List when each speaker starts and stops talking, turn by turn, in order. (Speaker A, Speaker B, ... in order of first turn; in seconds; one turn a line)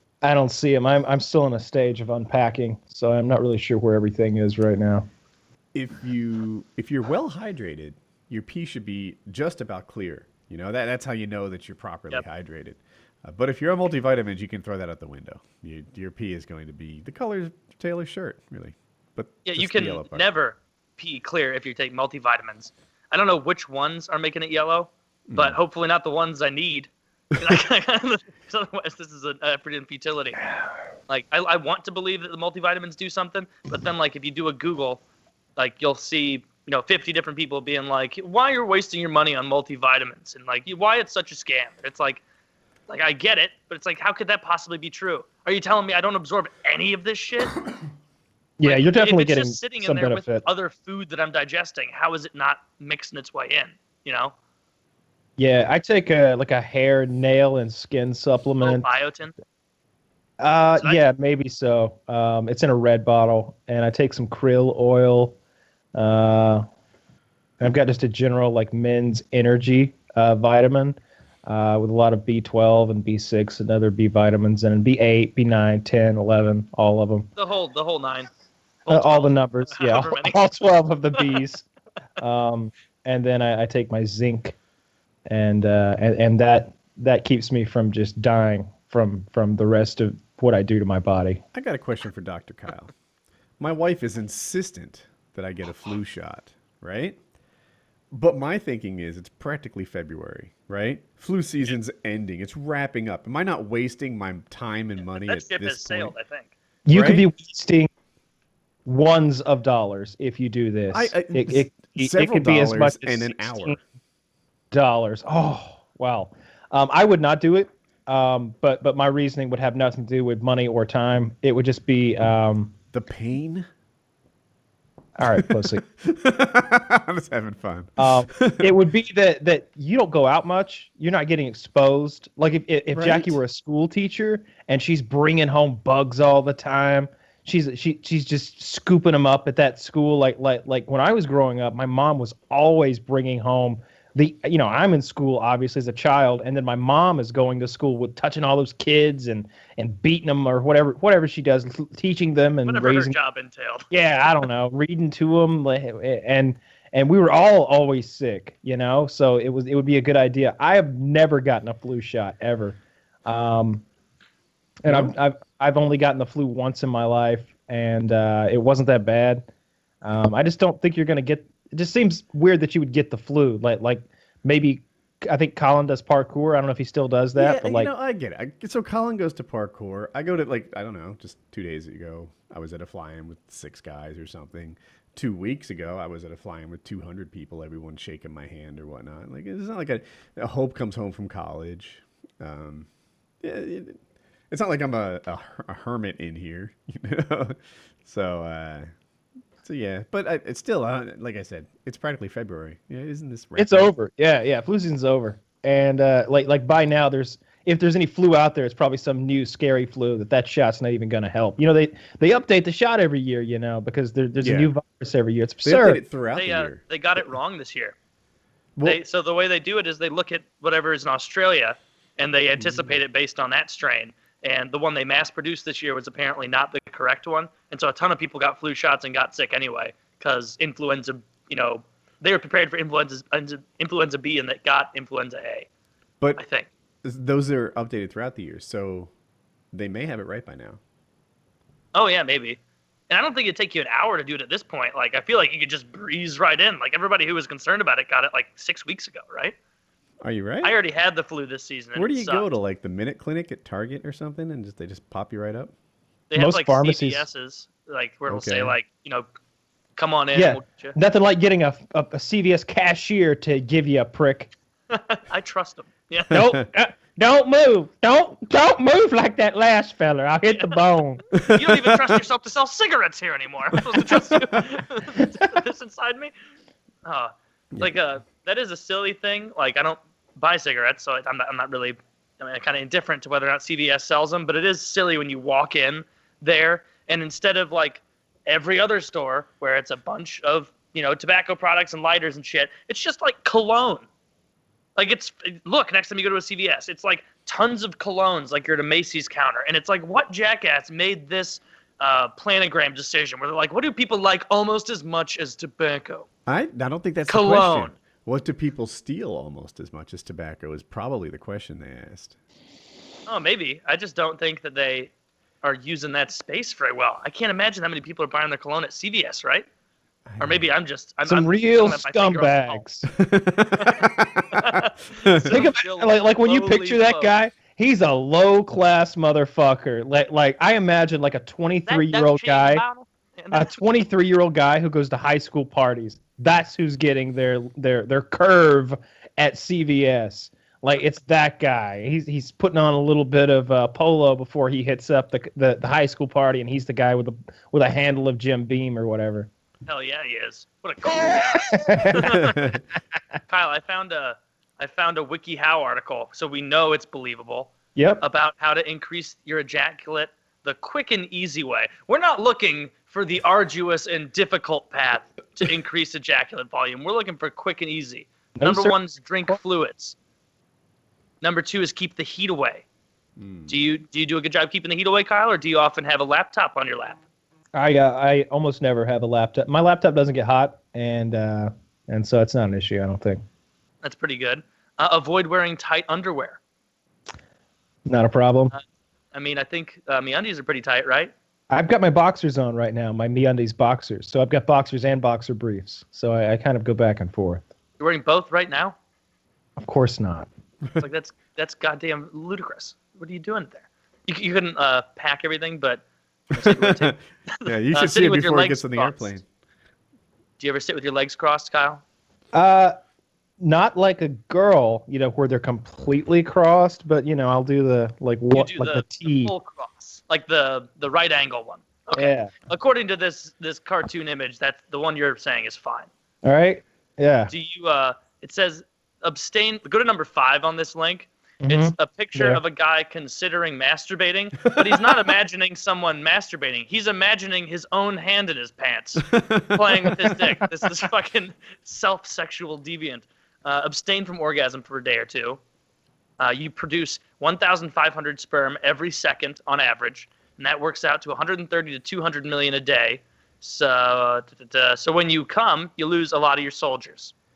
Speaker A: 0.2-5.1
Speaker B: 5.7-20.2
Speaker C: 19.4-30.4
Speaker B: 25.3-25.6
Speaker C: 31.1-35.0
Speaker C: 35.6-42.2
Speaker C: 42.9-47.6
Speaker A: 48.6-50.4
Speaker C: 48.6-54.3
Speaker A: 55.4-58.9
Speaker C: 58.6-59.3
Speaker A: 60.4-65.4
Speaker A: 65.9-66.6
Speaker A: 67.6-77.3
Speaker C: 77.4-78.3
Speaker C: 78.8-80.4
Speaker A: 78.9-81.7
Speaker A: 82.2-84.6
Speaker A: 85.3-91.4
Speaker B: 91.5-92.9
Speaker B: 93.6-97.2
Speaker B: 98.1-106.1
Speaker C: 105.1-106.5
Speaker A: 106.9-107.9
Speaker B: 106.9-107.2
Speaker A: 108.9-113.8
Speaker B: 110.9-113.8
Speaker A: 114.7-122.7
Speaker B: 122.9-123.7
Speaker A: 125.2-125.8
Speaker B: 125.3-128.7
Speaker A: 128.0-153.2
Speaker B: 132.9-133.4
Speaker C: 152.7-153.9
Speaker A: 153.9-163.8
Speaker A: 164.8-169.4
Speaker B: 164.9-165.1
Speaker A: 170.0-177.9
Speaker B: 177.4-192.9
Speaker B: 193.4-194.0
Speaker B: 194.5-198.9
Speaker B: 199.6-203.9
Speaker A: 203.6-216.0
Speaker B: 214.4-214.7
Speaker B: 215.7-216.8
Speaker C: 216.3-217.9
Speaker C: 218.8-235.7
Speaker B: 222.6-222.9
Speaker C: 236.4-236.7
Speaker B: 237.0-239.1
Speaker B: 239.7-240.8
Speaker C: 241.9-242.6
Speaker C: 243.1-249.6
Speaker B: 250.2-250.8
Speaker C: 250.6-252.5
Speaker B: 251.9-255.7
Speaker C: 256.3-259.3
Speaker A: 256.4-257.3
Speaker B: 258.3-258.8
Speaker C: 260.0-260.9
Speaker A: 260.4-264.5
Speaker C: 264.9-266.4
Speaker A: 266.3-271.2
Speaker C: 270.5-270.8
Speaker B: 271.3-272.1
Speaker C: 271.4-276.3
Speaker B: 273.8-274.7
Speaker C: 277.0-294.1
Speaker C: 295.0-306.3
Speaker B: 306.5-312.4
Speaker C: 307.3-307.9
Speaker C: 313.3-315.1
Speaker C: 315.6-319.7
Speaker B: 320.3-320.7
Speaker C: 320.4-322.8
Speaker A: 321.2-323.1
Speaker B: 323.1-325.6
Speaker C: 323.8-327.3
Speaker A: 325.4-332.9
Speaker C: 331.9-333.8
Speaker A: 333.5-349.5
Speaker C: 349.9-352.8
Speaker A: 351.1-352.5
Speaker B: 352.3-352.8
Speaker C: 353.5-370.1
Speaker A: 358.0-358.2
Speaker A: 368.6-368.9
Speaker C: 371.4-372.9
Speaker B: 373.4-373.8
Speaker C: 373.7-377.2
Speaker A: 377.8-383.4
Speaker C: 384.0-386.6
Speaker A: 388.1-388.7
Speaker C: 389.3-391.3
Speaker A: 391.7-397.6
Speaker C: 398.0-399.0
Speaker A: 399.8-400.5
Speaker C: 401.0-409.4
Speaker B: 406.5-409.4
Speaker C: 410.6-412.0
Speaker A: 412.5-413.0
Speaker A: 413.6-419.5
Speaker C: 418.5-426.1
Speaker A: 422.1-422.5
Speaker A: 426.4-427.5
Speaker C: 427.5-445.6
Speaker A: 431.6-432.6
Speaker B: 434.6-435.2
Speaker B: 439.3-440.5
Speaker C: 446.4-457.3